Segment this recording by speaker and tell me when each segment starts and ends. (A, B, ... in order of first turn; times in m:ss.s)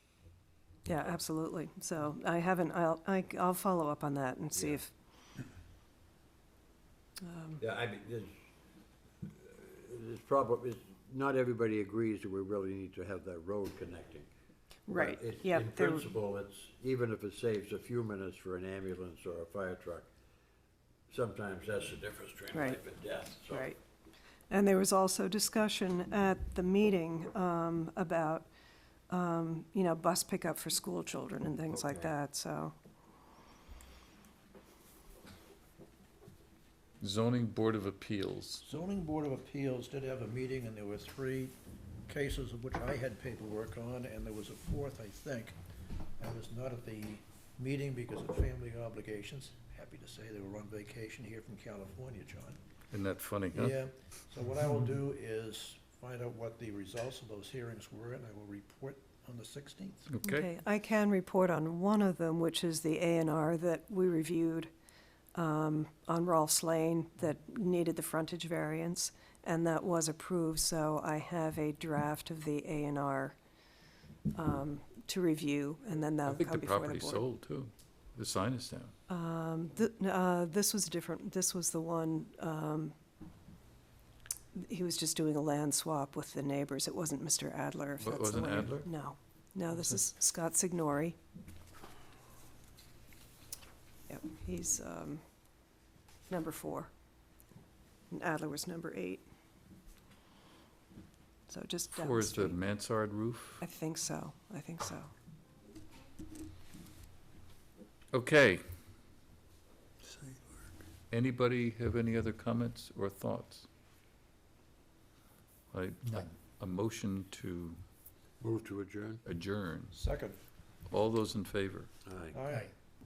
0:00.8-0:04.9 A
0:04.5-0:04.8 B
0:07.2-0:07.6 A
0:07.6-0:08.4 B
0:09.2-0:14.3 B
0:14.9-0:16.1 A
0:14.9-0:20.1 B
0:21.1-0:23.7 B
0:22.5-0:22.8 A
0:23.4-0:23.8 A
0:24.5-0:28.5 A
0:29.1-0:32.7 A
0:31.7-0:32.1 B
0:37.0-0:38.6 C
0:38.6-0:41.6 D
0:42.1-0:45.5 D
0:46.2-0:52.6 D
0:52.9-0:53.8 C
0:53.5-1:00.1 D
1:00.1-1:00.5 C
1:00.2-1:04.7 A
1:05.3-1:13.4 A
1:14.3-1:17.2 A
1:16.2-1:18.9 C
1:19.1-1:23.0 A
1:24.5-1:31.2 A
1:28.0-1:28.9 C
1:34.1-1:35.2 A
1:36.3-1:36.9 A
1:38.1-1:39.2 A
1:41.5-1:42.6 A
1:42.0-1:43.6 C
1:43.6-1:45.1 A
1:48.1-1:48.6 C
1:51.1-1:53.7 C
1:55.7-1:57.8 C
1:58.4-1:59.2 B
1:59.2-1:59.9 C
1:59.9-2:00.4 D
2:00.9-2:01.9 C
2:02.0-2:02.4 B
2:02.3-2:02.7 D